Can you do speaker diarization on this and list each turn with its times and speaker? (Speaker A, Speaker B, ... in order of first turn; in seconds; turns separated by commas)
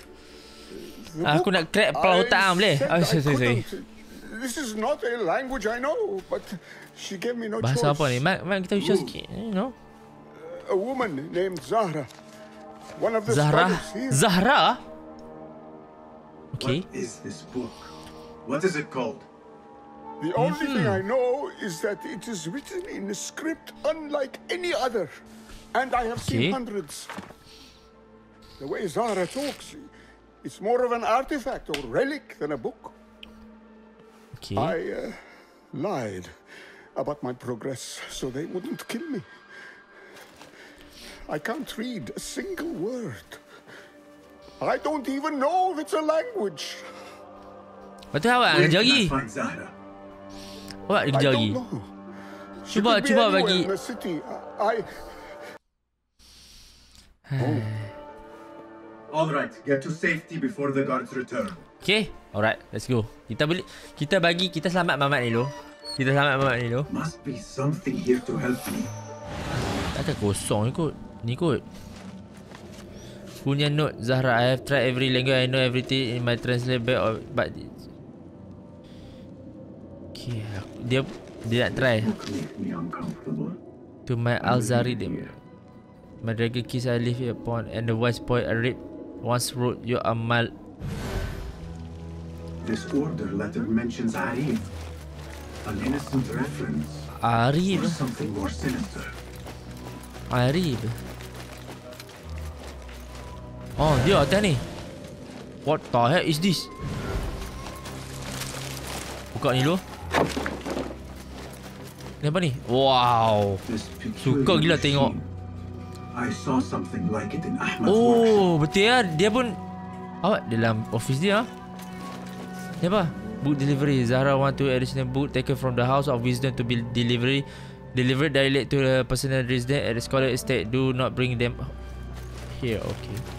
Speaker A: 0.7-8.2, Speaker B: 1.2-3.6, Speaker B: 7.6-9.7, Speaker C: 8.8-9.1, Speaker A: 10.4-12.1, Speaker A: 13.0-14.2, Speaker B: 13.3-14.8, Speaker B: 16.5-16.8, Speaker C: 16.6-17.9, Speaker C: 18.4-19.3, Speaker A: 20.2-25.1, Speaker B: 20.4-21.0, Speaker A: 25.7-27.1, Speaker B: 26.2-26.6, Speaker A: 28.6-29.9, Speaker A: 30.4-32.9, Speaker B: 34.4-34.7, Speaker A: 34.5-36.3, Speaker A: 37.0-39.3, Speaker A: 41.3-43.4, Speaker A: 44.6-46.9, Speaker B: 48.1-49.1, Speaker C: 48.5-49.7, Speaker B: 50.9-51.6, Speaker A: 51.1-51.9, Speaker A: 52.6-55.0, Speaker B: 52.7-53.7, Speaker B: 57.3-57.9, Speaker A: 57.4-57.7, Speaker C: 59.1-61.6, Speaker B: 61.8-66.9, Speaker C: 66.9-68.9, Speaker B: 69.9-71.6, Speaker B: 73.4-77.7, Speaker B: 80.1-82.1, Speaker C: 81.7-83.6, Speaker B: 84.1-85.3, Speaker C: 84.4-85.3, Speaker B: 86.2-90.5, Speaker C: 92.6-94.7, Speaker C: 95.6-97.1, Speaker B: 97.2-98.0, Speaker C: 97.6-99.1, Speaker B: 100.3-100.9, Speaker B: 103.8-104.6, Speaker B: 105.6-106.7, Speaker B: 109.3-109.8, Speaker B: 112.2-113.6, Speaker C: 113.7-115.3, Speaker B: 114.2-115.1, Speaker C: 116.1-118.5, Speaker B: 117.8-119.6, Speaker B: 120.2-121.5, Speaker B: 122.8-131.7, Speaker B: 132.5-133.2